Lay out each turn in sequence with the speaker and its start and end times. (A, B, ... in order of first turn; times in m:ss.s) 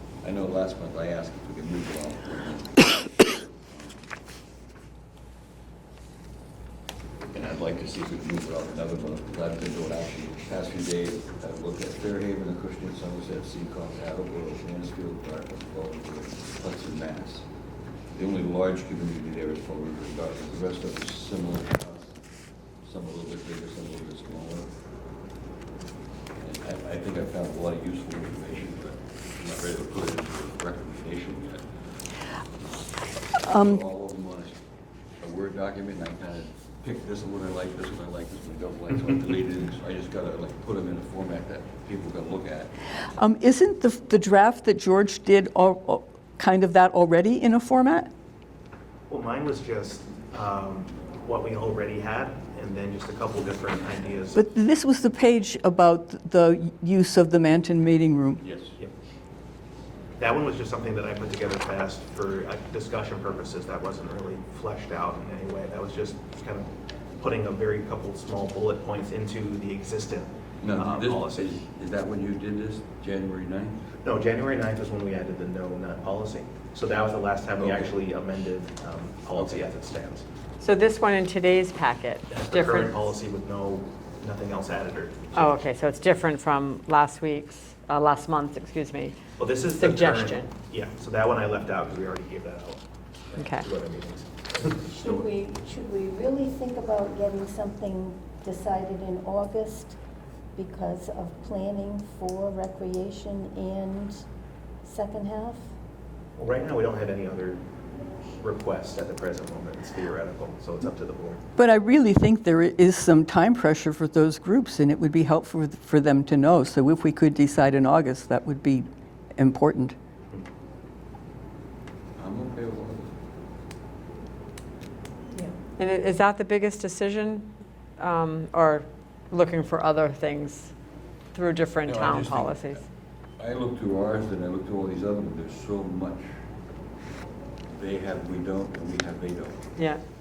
0:00.2-0:02.8 A
0:07.3-0:17.4 A
0:18.1-0:22.2 A
0:22.8-0:24.7 A
0:26.4-0:31.6 A
0:33.3-0:34.6 A
0:33.4-0:33.8 B
0:35.2-0:42.7 A
0:43.2-0:48.1 B
0:49.1-0:54.4 C
0:54.3-0:58.4 B
0:58.4-0:58.8 A
1:00.2-1:11.5 C
1:10.6-1:13.9 A
1:14.0-1:20.2 C
1:17.6-1:17.9 A
1:19.3-1:19.6 A
1:20.6-1:23.0 D
1:22.3-1:25.6 C
1:25.3-1:29.2 D
1:29.4-1:35.2 C
1:29.8-1:30.5 D
1:33.4-1:33.6 D
1:34.8-1:40.0 E
1:40.6-1:44.2 E
1:44.8-1:45.6 E
1:46.4-1:47.6 C
1:48.4-1:51.4 C
1:51.6-1:59.9 B
2:02.2-2:03.1 A
2:05.8-2:10.7 D
2:11.3-2:12.8 D
2:11.8-2:12.8 A
2:13.4-2:16.3 A
2:17.7-2:19.7 A